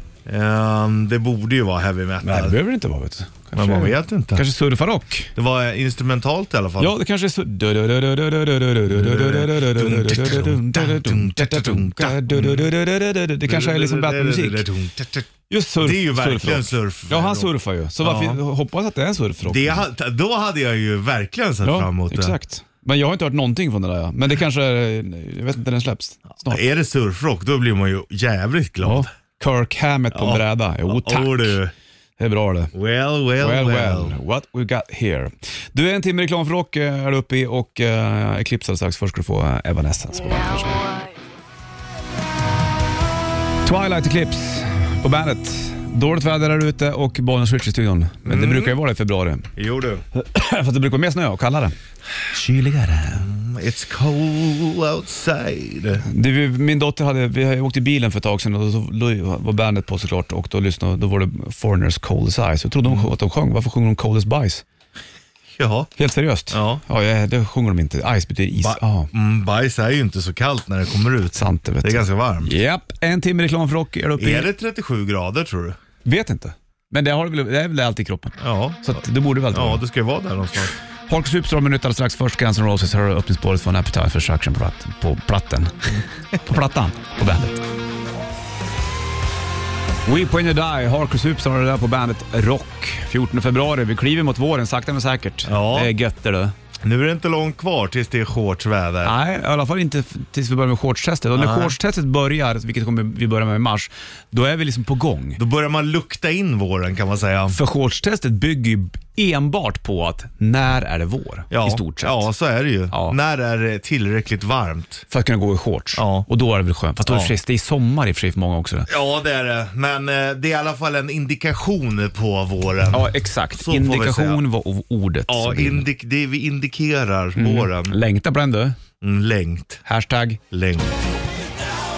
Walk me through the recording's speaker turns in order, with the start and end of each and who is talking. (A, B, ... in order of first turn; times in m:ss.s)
0:00.2-0:02.6 A
0:02.2-0:05.3 B
0:03.6-0:04.4 A
0:05.4-0:06.9 A
0:06.8-0:14.6 B
0:08.9-0:12.7 A
0:13.4-0:18.4 A
0:15.5-0:19.8 B
0:19.4-0:22.4 A
0:21.6-0:26.6 B
0:26.4-0:29.1 A
0:28.8-0:31.6 B
0:30.1-0:31.7 A
0:32.2-0:32.7 B
0:32.7-0:34.2 A
0:33.4-0:41.0 B
0:43.6-0:49.5 B
0:48.2-0:48.8 A
0:49.6-0:50.0 A
0:50.1-0:51.7 B
0:52.3-0:53.3 B
0:53.1-0:56.0 A
0:56.0-1:04.6 B
1:05.5-1:05.9 A
1:06.0-1:09.1 B
1:06.5-1:06.8 A
1:08.6-1:12.6 A
1:11.3-1:14.5 B
1:14.2-1:15.8 A
1:16.0-1:19.8 B
1:18.4-1:20.7 A
1:21.1-1:27.6 B
1:30.0-1:36.5 B
1:35.5-1:35.9 A
1:36.8-1:39.1 A
1:39.0-1:45.4 B
1:41.3-1:41.8 A
1:45.4-1:47.6 A
1:47.5-1:52.3 B
1:51.5-1:55.0 A
1:52.9-1:53.2 B
1:55.1-1:58.9 B
1:56.0-1:56.3 A
1:57.0-1:57.3 A
1:58.9-2:04.4 A
2:02.9-2:05.8 B
2:05.3-2:08.0 A
2:07.4-2:08.8 B
2:09.0-2:09.8 A
2:09.8-2:10.4 B
2:10.5-2:10.9 A